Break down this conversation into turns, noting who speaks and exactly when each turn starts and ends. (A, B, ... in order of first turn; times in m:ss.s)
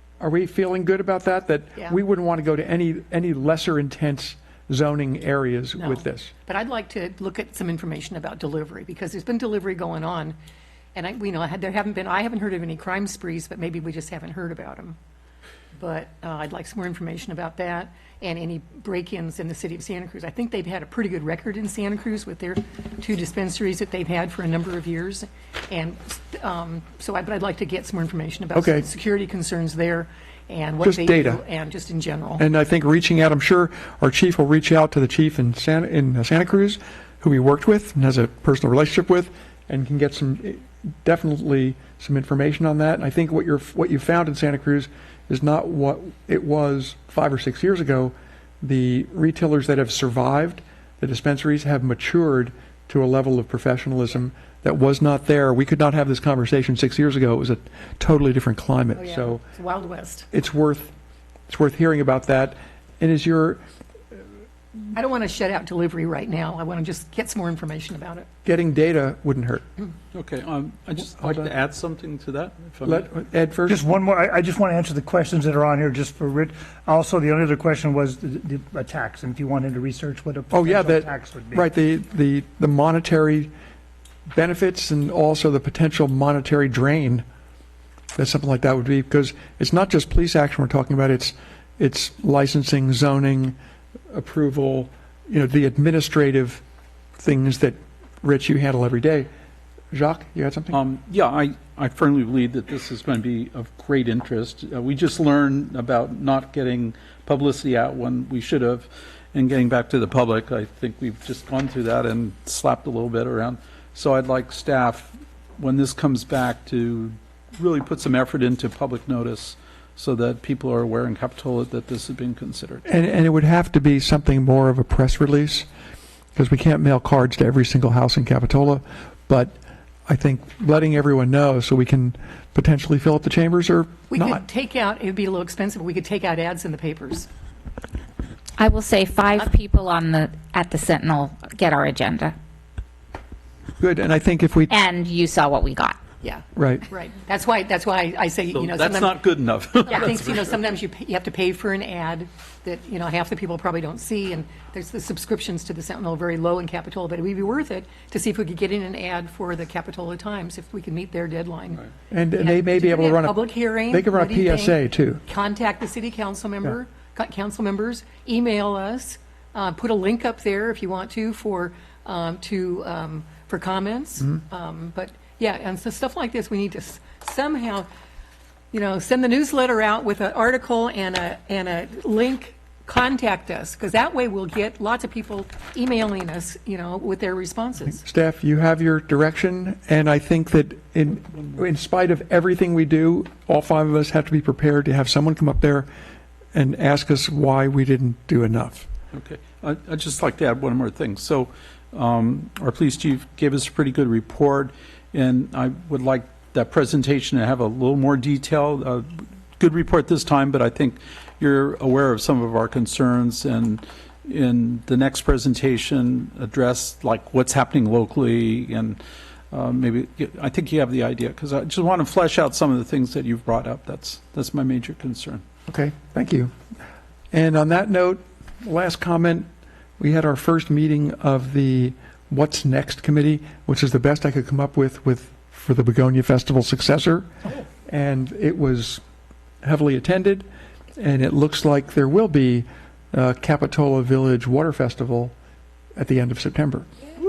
0:00.2-0:06.3 A
0:05.8-0:10.4 B
0:10.9-0:15.0 B
0:15.7-0:32.4 B
0:28.5-0:28.8 A
0:30.8-0:31.4 A
0:32.4-0:59.4 A
0:58.9-1:00.3 B
1:00.3-1:00.9 A
1:01.5-1:03.6 A
1:04.9-1:08.3 B
1:08.4-1:09.6 A
1:10.1-1:13.1 C
1:11.2-1:11.5 A
1:12.8-1:13.9 A
1:13.7-1:21.6 D
1:20.5-1:23.5 A
1:24.3-1:27.2 A
1:28.2-1:33.6 A
1:34.1-1:36.6 A
1:37.2-1:39.3 A
1:39.9-1:40.8 A
1:40.7-2:02.8 C
2:02.8-2:05.7 A
2:06.4-2:09.6 A
2:10.1-2:14.4 A
2:14.1-2:17.3 B
2:18.6-2:22.3 E
2:23.8-2:24.7 A
2:24.7-2:26.0 E
2:26.2-2:29.2 B
2:26.6-2:26.8 A
2:28.5-2:30.6 C
2:29.8-2:41.8 B
2:42.1-2:45.2 A
2:42.4-2:57.9 B
2:58.7-3:08.0 B
3:07.9-3:15.9 A
3:16.5-3:18.9 A
3:19.1-3:39.0 C
3:39.5-3:45.4 C
3:45.7-3:46.5 A
3:47.3-3:49.5 A
3:50.0-3:57.3 A
3:57.9-3:59.0 A
3:59.6-4:00.4 A
4:01.0-4:05.3 A
4:06.0-4:06.9 A